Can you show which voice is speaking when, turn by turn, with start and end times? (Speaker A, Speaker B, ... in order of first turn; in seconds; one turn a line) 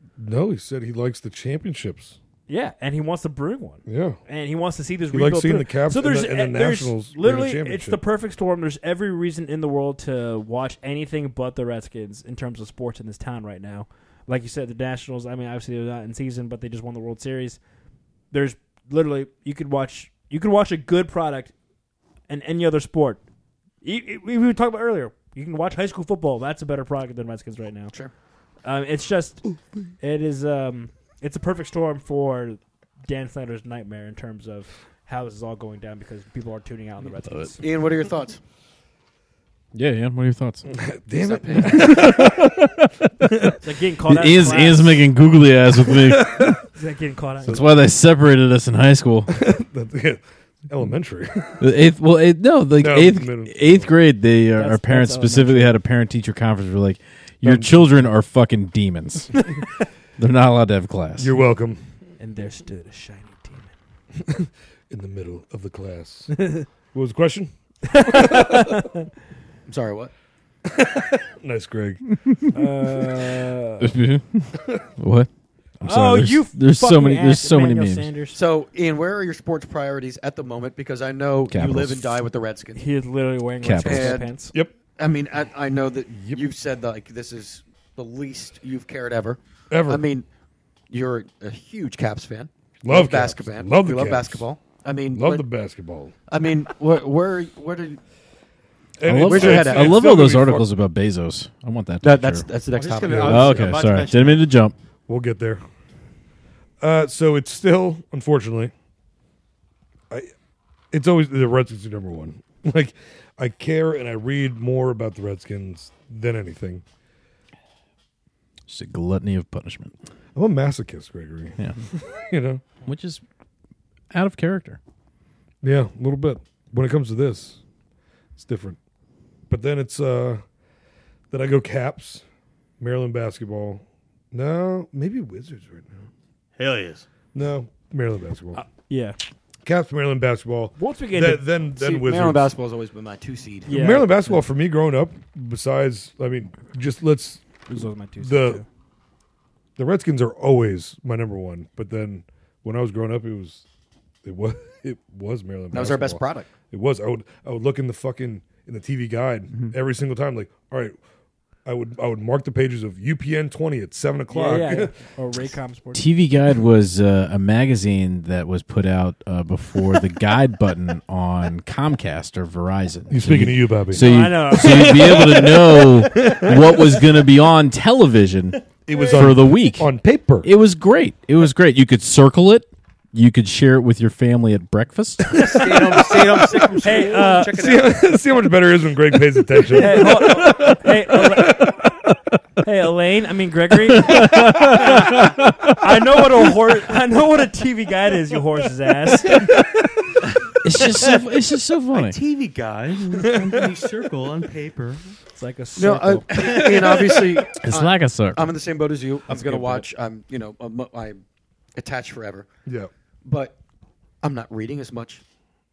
Speaker A: 0.2-2.2
Speaker B: 2.5-17.6
Speaker A: 3.9-4.2
Speaker A: 5.1-8.0
Speaker B: 18.3-21.5
Speaker B: 22.3-23.2
Speaker B: 23.8-27.9
Speaker B: 28.6-37.6
Speaker C: 37.2-37.5
Speaker D: 37.6-38.4
Speaker C: 39.7-40.7
Speaker A: 40.7-42.5
Speaker D: 41.2-42.1
Speaker C: 41.6-42.9
Speaker B: 43.6-45.1
Speaker C: 44.0-46.6
Speaker A: 45.9-46.6
Speaker B: 46.8-47.7
Speaker C: 47.5-49.3
Speaker A: 49.3-51.7
Speaker C: 51.6-59.4
Speaker A: 52.8-54.0
Speaker B: 54.5-55.8
Speaker A: 57.4-58.0
Speaker C: 60.2-61.3
Speaker A: 61.2-61.8
Speaker B: 62.2-63.7
Speaker A: 64.3-68.7
Speaker B: 67.9-69.0
Speaker D: 69.7-70.1
Speaker A: 70.7-72.4
Speaker B: 72.5-73.9
Speaker C: 73.8-78.1
Speaker B: 75.8-78.4
Speaker D: 78.3-82.8
Speaker C: 81.5-82.3
Speaker B: 82.8-84.5
Speaker C: 83.6-84.3
Speaker D: 83.8-90.3
Speaker A: 84.5-84.8
Speaker A: 89.7-90.0
Speaker D: 90.9-95.5
Speaker A: 92.8-94.4
Speaker A: 95.1-96.1
Speaker D: 96.3-98.0
Speaker A: 99.0-100.7
Speaker C: 99.0-102.5
Speaker D: 99.2-100.1
Speaker D: 102.0-103.7
Speaker E: 102.7-104.5
Speaker A: 103.0-103.7
Speaker C: 103.2-104.8
Speaker A: 105.1-105.6
Speaker A: 106.8-108.7
Speaker A: 110.9-116.8
Speaker C: 118.7-120.0
Speaker A: 120.3-122.6
Speaker C: 121.6-121.8
Speaker C: 122.8-123.2
Speaker C: 124.1-124.8
Speaker A: 125.6-127.6
Speaker A: 128.4-128.8
Speaker A: 129.5-130.4
Speaker A: 131.3-132.2
Speaker A: 132.8-136.1
Speaker E: 136.6-137.1
Speaker A: 137.3-138.6
Speaker B: 138.6-139.2
Speaker A: 139.7-142.5
Speaker B: 140.8-141.5
Speaker D: 141.8-143.9
Speaker B: 143.7-144.3
Speaker A: 143.7-147.4
Speaker B: 147.7-148.7
Speaker A: 148.2-148.6
Speaker A: 149.8-153.6
Speaker A: 154.2-161.0
Speaker D: 155.7-156.5
Speaker A: 161.7-165.0
Speaker B: 164.3-166.1
Speaker C: 165.9-185.3
Speaker A: 173.1-175.4
Speaker B: 174.0-176.6
Speaker A: 176.2-176.5
Speaker A: 178.9-180.5
Speaker E: 185.3-188.0
Speaker B: 186.8-187.5
Speaker A: 187.5-192.1
Speaker B: 189.7-191.8
Speaker B: 192.6-195.2
Speaker C: 194.0-195.7
Speaker B: 195.8-199.7
Speaker C: 200.6-202.2
Speaker E: 201.9-205.2
Speaker B: 205.3-206.7
Speaker D: 205.8-211.2
Speaker E: 206.4-207.2
Speaker C: 207.6-208.5
Speaker B: 209.3-209.9
Speaker D: 211.8-212.5
Speaker D: 213.2-213.6
Speaker D: 214.2-215.2